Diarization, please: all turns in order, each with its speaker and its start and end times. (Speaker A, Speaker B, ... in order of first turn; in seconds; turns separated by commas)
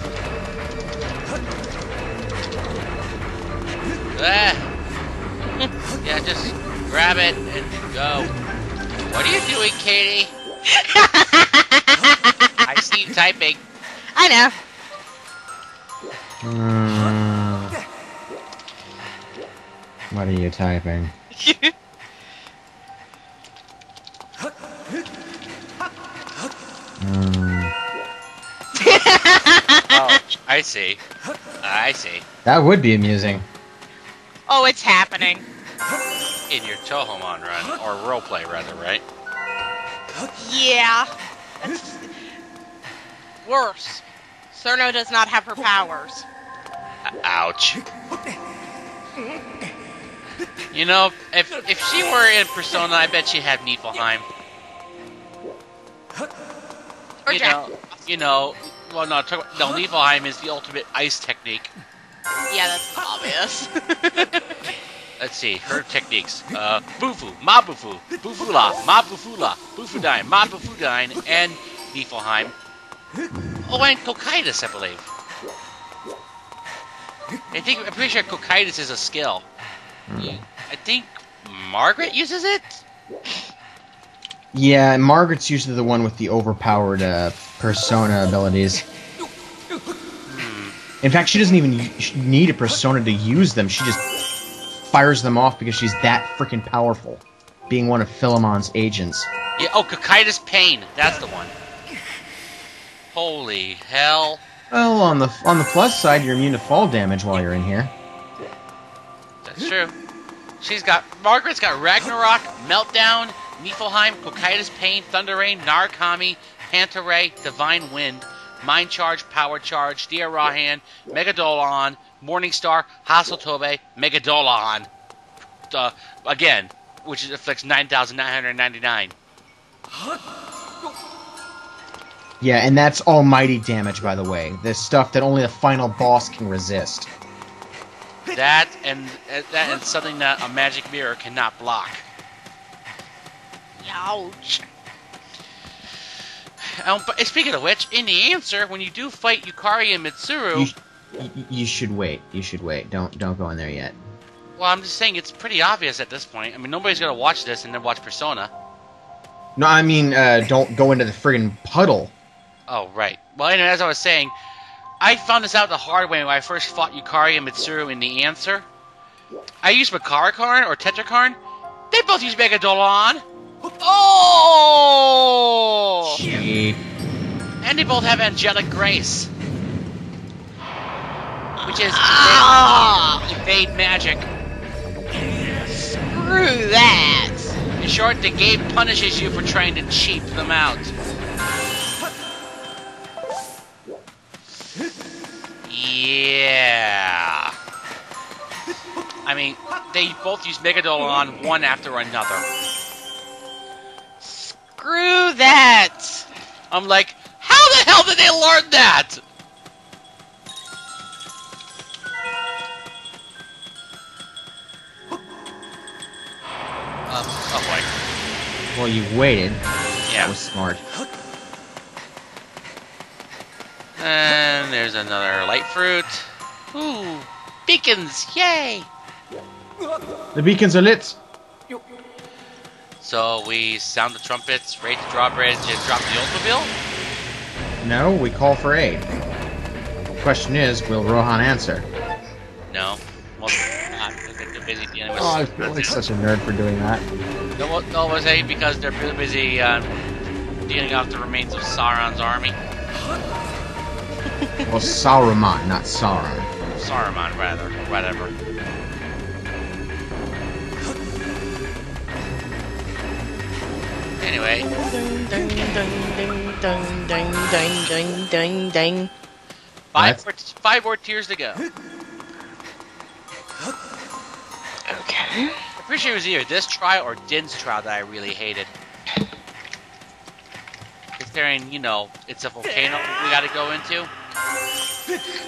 Speaker A: 4.1-4.7, Speaker A: 6.0-8.3, Speaker A: 9.1-10.3, Speaker B: 10.7-12.5, Speaker A: 12.6-13.6, Speaker B: 14.1-14.5, Speaker C: 16.4-17.7, Speaker C: 20.1-21.1, Speaker B: 21.3-21.7, Speaker C: 27.0-27.7, Speaker B: 28.7-30.2, Speaker A: 29.9-31.0, Speaker A: 31.6-32.2, Speaker C: 32.4-33.4, Speaker B: 34.5-35.4, Speaker A: 36.5-39.0, Speaker B: 40.4-41.1, Speaker B: 41.6-42.2, Speaker B: 43.4-44.0, Speaker B: 44.5-46.2, Speaker A: 47.0-47.8, Speaker A: 50.7-54.2, Speaker B: 57.2-57.6, Speaker A: 57.3-61.7, Speaker B: 62.5-64.5, Speaker A: 65.2-72.5, Speaker A: 73.7-75.1, Speaker A: 77.5-79.4, Speaker C: 80.1-80.4, Speaker A: 80.2-82.8, Speaker C: 84.5-88.8, Speaker A: 90.3-90.8, Speaker C: 91.0-94.0, Speaker C: 94.9-99.3, Speaker A: 99.6-101.5, Speaker A: 103.1-104.4, Speaker C: 104.7-107.9, Speaker A: 109.4-109.9, Speaker A: 110.6-124.9, Speaker A: 125.7-129.1, Speaker C: 132.4-137.1, Speaker A: 138.3-142.0, Speaker B: 143.8-144.6, Speaker A: 146.6-150.7, Speaker C: 150.5-154.0, Speaker A: 154.6-158.5, Speaker C: 159.6-162.1, Speaker A: 162.7-164.3, Speaker A: 165.0-168.7, Speaker A: 169.6-171.4, Speaker A: 171.9-173.2, Speaker B: 173.8-176.2, Speaker C: 176.2-176.8, Speaker A: 177.6-179.3, Speaker B: 181.6-183.4, Speaker A: 181.6-182.6, Speaker A: 183.2-184.3, Speaker B: 185.7-187.6, Speaker A: 187.8-190.9, Speaker A: 195.7-197.6, Speaker A: 199.2-202.4, Speaker B: 204.2-206.3, Speaker A: 206.7-209.2, Speaker A: 217.1-217.9, Speaker C: 218.7-220.8, Speaker A: 220.1-220.3, Speaker A: 224.0-228.9, Speaker C: 230.3-231.2, Speaker A: 233.0-236.7, Speaker C: 237.8-239.1, Speaker C: 240.2-241.9, Speaker A: 242.7-246.0, Speaker C: 245.2-247.1, Speaker A: 247.6-249.9, Speaker A: 250.7-252.6, Speaker C: 254.7-256.5, Speaker A: 256.7-258.3, Speaker A: 264.2-264.7, Speaker B: 264.7-269.1, Speaker A: 269.9-271.6, Speaker C: 269.9-270.2, Speaker B: 274.9-275.6, Speaker A: 275.8-278.7, Speaker A: 281.2-284.1